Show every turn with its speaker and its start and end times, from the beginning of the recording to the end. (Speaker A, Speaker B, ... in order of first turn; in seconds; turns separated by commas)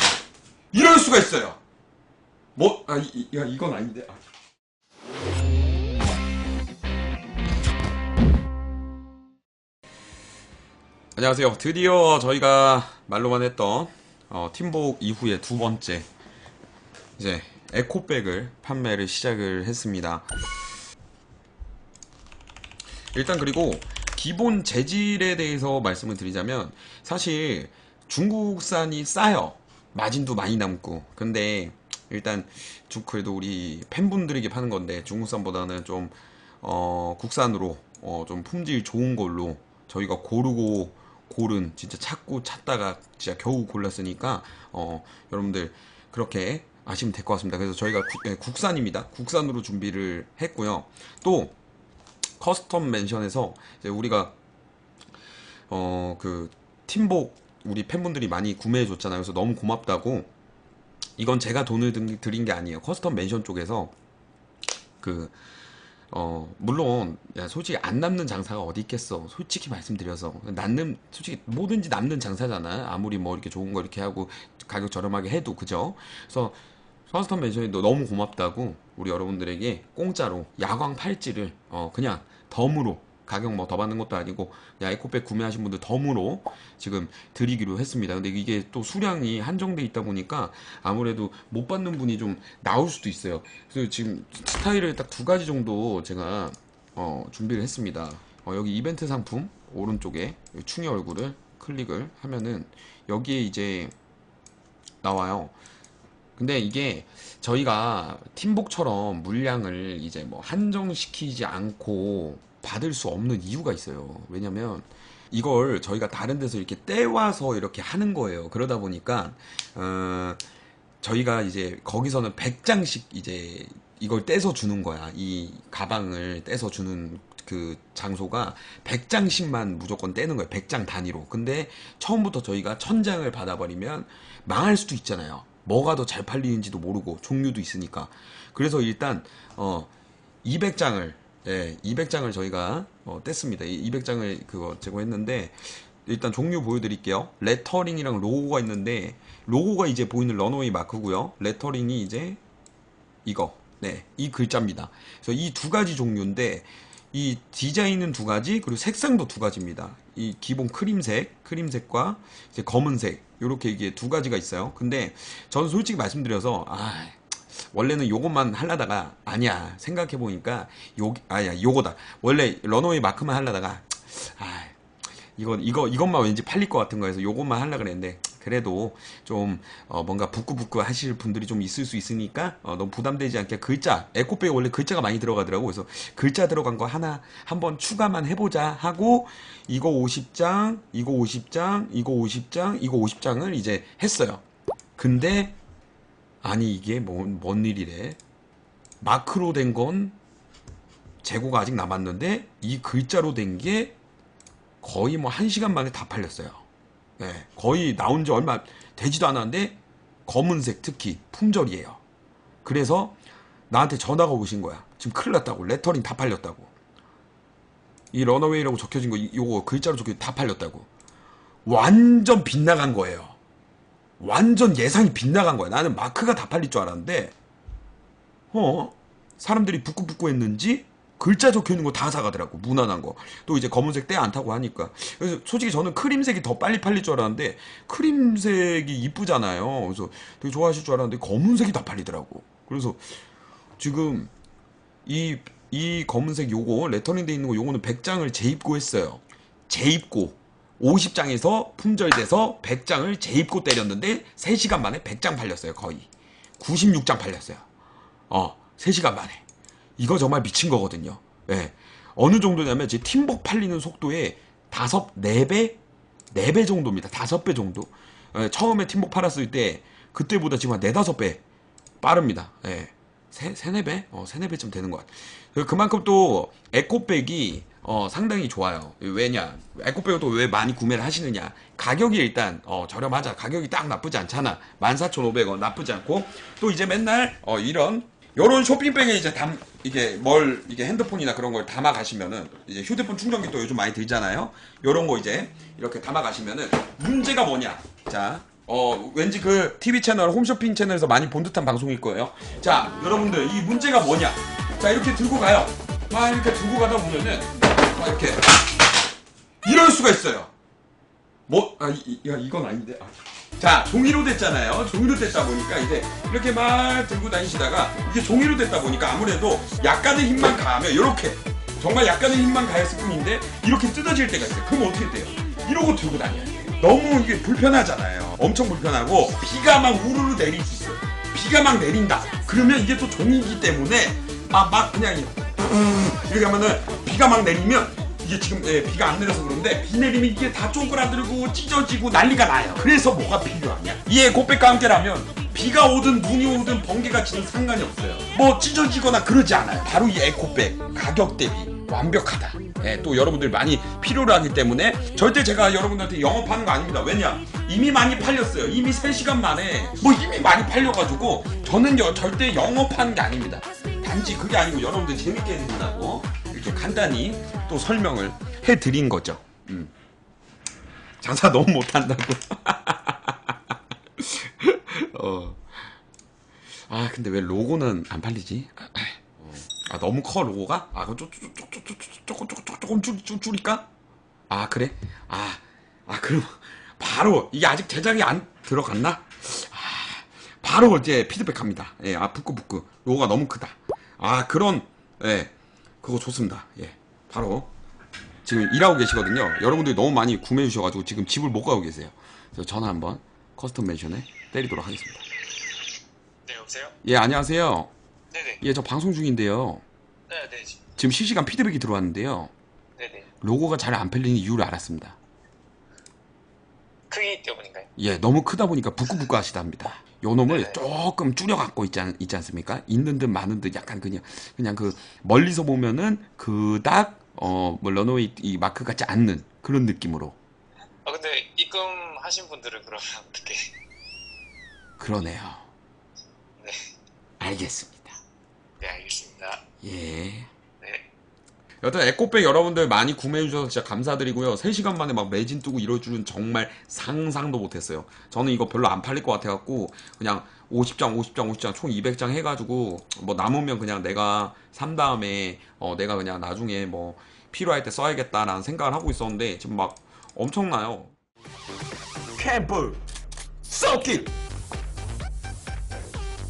Speaker A: 0.7-1.6, Speaker A: 2.6-4.2, Speaker A: 11.2-16.1, Speaker A: 17.2-20.3, Speaker A: 23.1-51.5, Speaker A: 52.4-54.4, Speaker A: 55.7-60.3, Speaker A: 61.2-63.9, Speaker A: 65.0-65.4, Speaker A: 66.1-76.6, Speaker A: 77.1-103.9, Speaker A: 105.0-105.5, Speaker A: 106.4-120.4, Speaker A: 121.0-139.9, Speaker A: 140.4-152.4, Speaker A: 153.2-174.8, Speaker A: 175.4-194.4, Speaker A: 195.0-195.6, Speaker A: 196.4-198.2, Speaker A: 199.0-200.2, Speaker A: 201.2-204.0, Speaker A: 204.8-206.6, Speaker A: 207.2-212.0, Speaker A: 212.6-213.2, Speaker A: 213.7-216.7, Speaker A: 218.1-220.9, Speaker A: 221.7-223.4, Speaker A: 224.2-227.3, Speaker A: 228.5-243.2, Speaker A: 243.8-244.3, Speaker A: 245.1-256.1, Speaker A: 256.6-257.7, Speaker A: 258.3-259.4, Speaker A: 260.0-265.8, Speaker A: 266.3-271.4, Speaker A: 272.0-308.5, Speaker A: 309.6-310.5, Speaker A: 311.5-369.9, Speaker A: 371.2-375.9, Speaker A: 376.9-383.9, Speaker A: 384.5-397.7, Speaker A: 398.4-405.2, Speaker B: 406.5-406.9, Speaker A: 407.0-407.9, Speaker B: 408.3-408.6, Speaker A: 408.6-409.8, Speaker B: 410.3-410.8, Speaker A: 411.0-412.5, Speaker B: 413.0-413.3, Speaker A: 413.4-415.2, Speaker B: 417.1-417.9, Speaker A: 418.0-430.4, Speaker B: 420.5-420.8, Speaker B: 431.1-433.7, Speaker A: 435.0-435.6, Speaker B: 436.6-436.9, Speaker A: 437.4-438.1, Speaker B: 438.8-439.6, Speaker A: 439.8-440.5, Speaker B: 440.8-441.1, Speaker A: 441.8-461.1, Speaker A: 462.4-463.0, Speaker A: 463.7-464.3